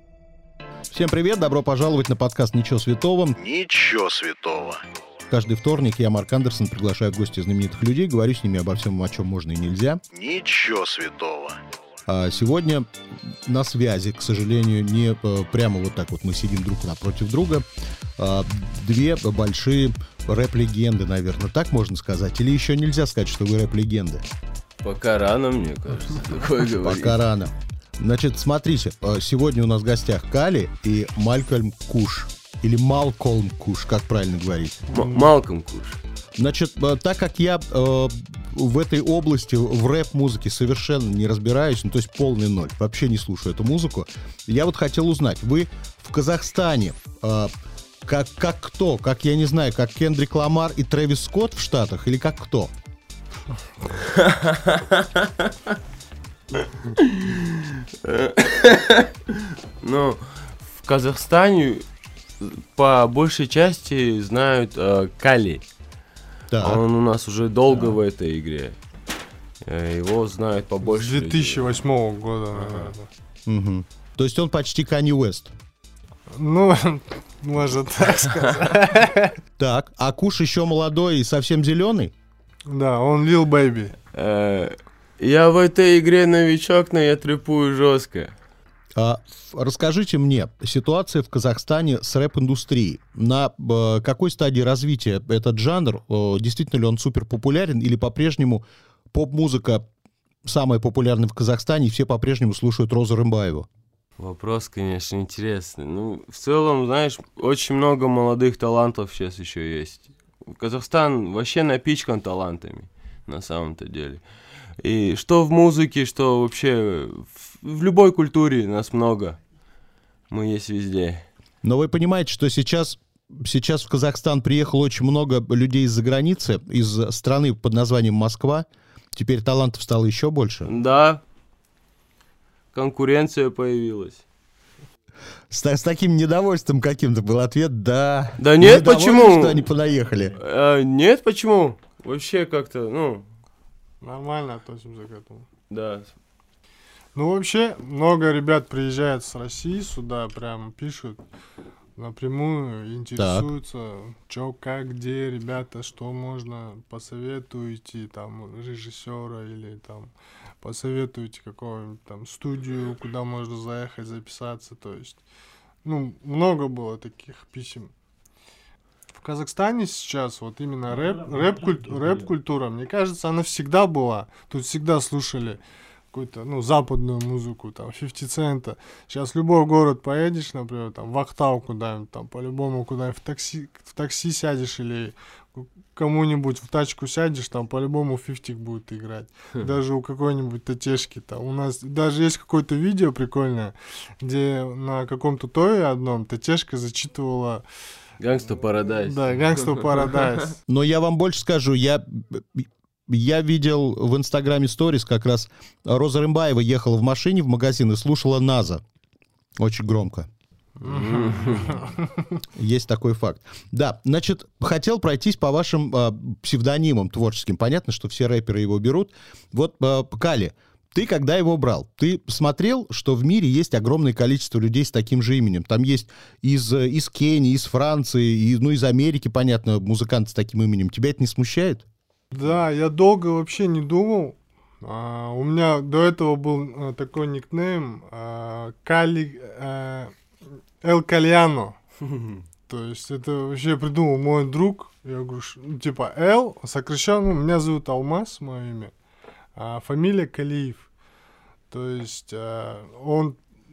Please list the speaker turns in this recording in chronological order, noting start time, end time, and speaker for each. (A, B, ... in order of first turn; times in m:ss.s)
0:00.9-0:11.6 A
0:12.1-0:17.6 A
0:18.2-0:24.2 A
0:24.8-0:27.2 B
0:26.8-0:34.8 A
0:34.9-0:35.3 C
0:34.9-0:36.0 B
0:36.4-0:47.5 A
0:48.0-0:52.7 A
0:53.9-0:55.5 B
0:56.9-1:01.8 B
1:02.4-1:05.6 B
1:06.5-1:06.8 A
1:06.6-1:08.8 B
1:09.6-1:11.7 B
1:10.8-1:13.1 C
1:12.5-1:12.9 B
1:13.4-1:15.5 A
1:16.3-1:19.4 C
1:19.6-1:22.1 A
1:22.7-1:23.9 C
1:24.1-1:28.3 B
1:29.0-1:39.8 A
1:40.4-1:43.7 A
1:44.2-1:54.2 B
1:54.8-1:59.4 B
2:00.3-2:01.2 B
2:01.6-2:10.7 A
2:10.6-2:11.2 B
2:12.7-2:14.2 B
2:15.5-2:20.3 A
2:18.4-2:19.6 B
2:20.3-2:23.2 B
2:24.0-2:25.4 C
2:25.7-2:26.1 B
2:27.1-2:31.2 C
2:32.0-2:45.2 C
2:33.2-2:33.5 A
2:45.8-2:47.9 C
2:49.1-2:55.6 C
2:56.1-3:17.6 C
3:18.2-3:20.1 B
3:18.6-3:20.6 C
3:20.7-3:28.8 A
3:29.6-3:30.3 A
3:30.8-3:32.3 C
3:30.8-3:31.8 B
3:32.6-3:51.8 A
3:52.3-4:00.1 C
4:00.8-4:01.8 C
4:02.7-4:08.9 C
4:09.6-4:10.9 C
4:11.7-4:13.4 C